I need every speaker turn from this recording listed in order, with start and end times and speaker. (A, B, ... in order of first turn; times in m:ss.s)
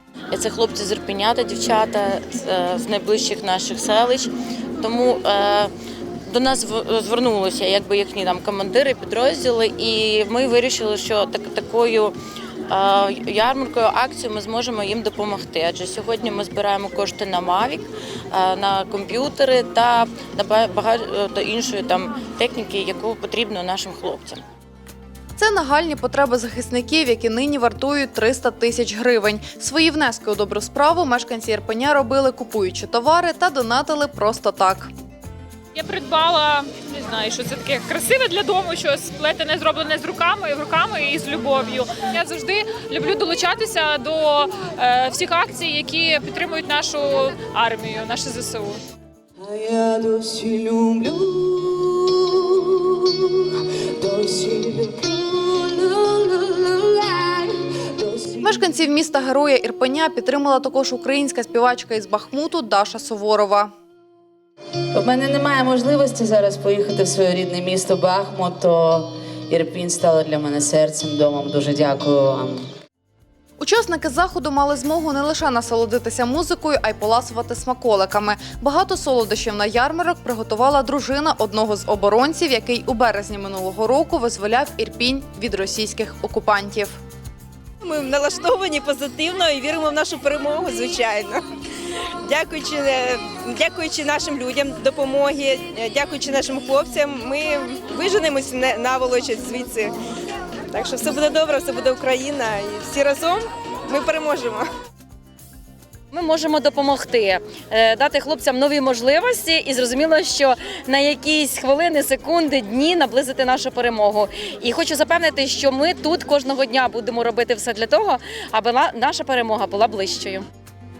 0:00.3-0:05.7 A
0:06.3-0:12.1 A
0:12.7-0:24.4 A
0:25.4-0:34.9 B
0:35.7-0:48.8 C
0:49.4-0:58.5 D
0:58.4-1:03.7 B
1:04.9-1:12.6 D
1:13.6-1:27.0 B
1:27.8-1:31.4 E
1:32.2-1:39.9 E
1:40.7-1:44.7 E
1:46.1-2:00.4 A